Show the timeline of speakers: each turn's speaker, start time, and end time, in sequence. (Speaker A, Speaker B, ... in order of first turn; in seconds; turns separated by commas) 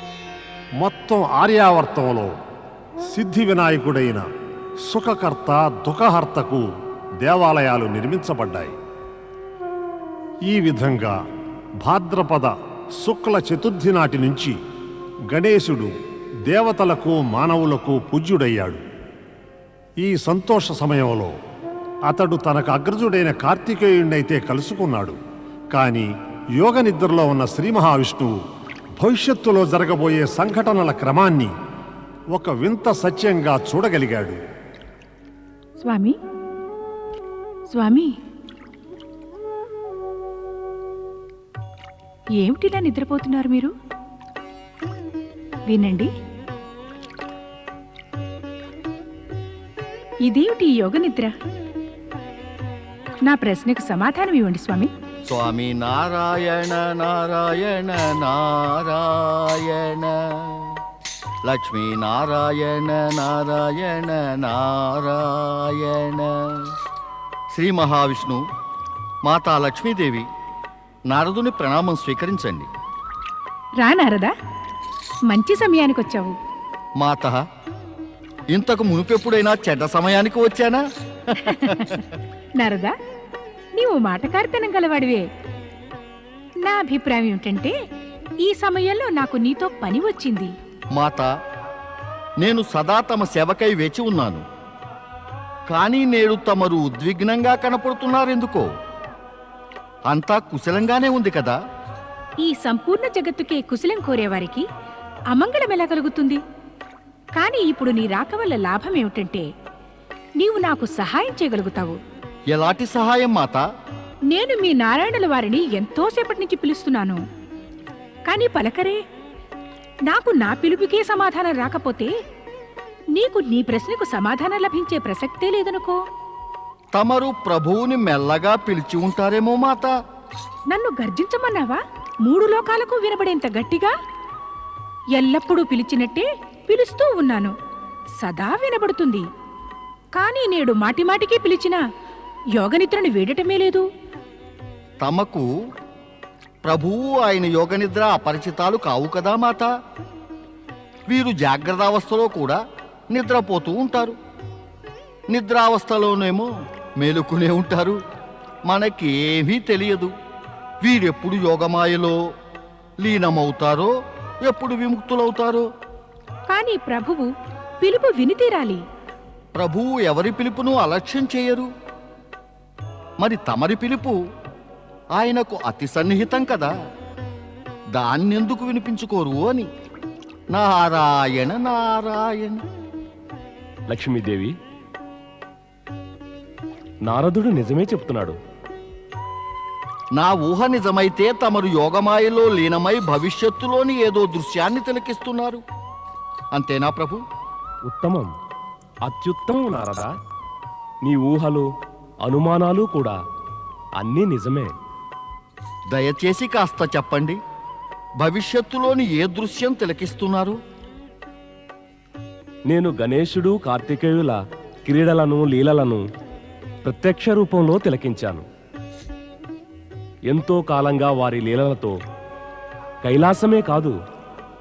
Speaker A: 0.8-2.4, Speaker A: 3.1-4.2, Speaker A: 4.9-6.6, Speaker A: 7.2-8.8, Speaker A: 10.5-11.2, Speaker A: 11.8-14.5, Speaker A: 15.3-15.9, Speaker A: 16.5-18.8, Speaker A: 20.0-21.3, Speaker A: 22.1-25.2, Speaker A: 25.7-26.1, Speaker A: 26.6-28.4, Speaker A: 29.0-31.5, Speaker A: 32.3-34.4, Speaker B: 35.8-36.2, Speaker B: 37.7-38.1, Speaker B: 42.4-43.7, Speaker B: 45.7-46.1, Speaker B: 50.2-51.3, Speaker B: 53.2-54.9, Speaker C: 55.3-60.7, Speaker C: 61.5-66.6, Speaker C: 67.5-68.4, Speaker C: 69.2-70.2, Speaker C: 71.1-72.7, Speaker B: 73.8-74.3, Speaker B: 75.3-76.4, Speaker C: 77.0-77.4, Speaker C: 78.5-80.8, Speaker B: 81.4-81.9, Speaker B: 82.6-82.9, Speaker B: 83.8-85.2, Speaker B: 86.6-87.7, Speaker B: 88.4-90.5, Speaker C: 91.0-91.3, Speaker C: 92.4-94.4, Speaker C: 95.7-98.7, Speaker C: 100.1-101.5, Speaker B: 102.4-104.7, Speaker B: 105.3-106.4, Speaker B: 107.4-109.5, Speaker B: 110.4-112.0, Speaker C: 112.5-113.6, Speaker B: 114.3-117.2, Speaker B: 118.3-119.0, Speaker B: 120.1-122.1, Speaker B: 123.2-126.0, Speaker C: 126.9-129.9, Speaker B: 130.7-133.9, Speaker B: 135.2-137.5, Speaker B: 138.2-139.3, Speaker B: 140.2-141.8, Speaker B: 142.6-143.8, Speaker C: 145.0-145.5, Speaker C: 146.6-149.7, Speaker C: 151.1-154.2, Speaker C: 155.3-156.5, Speaker C: 157.0-158.0, Speaker C: 158.7-160.1, Speaker C: 160.8-162.2, Speaker C: 163.0-163.9, Speaker C: 164.4-165.7, Speaker B: 166.5-167.3, Speaker B: 167.8-168.8, Speaker C: 169.6-171.7, Speaker C: 173.2-174.2, Speaker C: 175.1-176.7, Speaker C: 177.9-179.7, Speaker C: 180.5-182.6, Speaker D: 183.9-184.5, Speaker D: 187.1-188.3, Speaker C: 190.2-195.6, Speaker C: 196.5-197.2, Speaker D: 197.9-198.3, Speaker D: 199.1-200.1, Speaker D: 201.0-201.7, Speaker D: 202.2-203.2, Speaker D: 204.0-204.7, Speaker C: 205.9-207.4, Speaker C: 208.2-210.6, Speaker D: 212.7-216.0, Speaker D: 216.8-218.4, Speaker D: 220.3-221.9, Speaker D: 223.0-223.9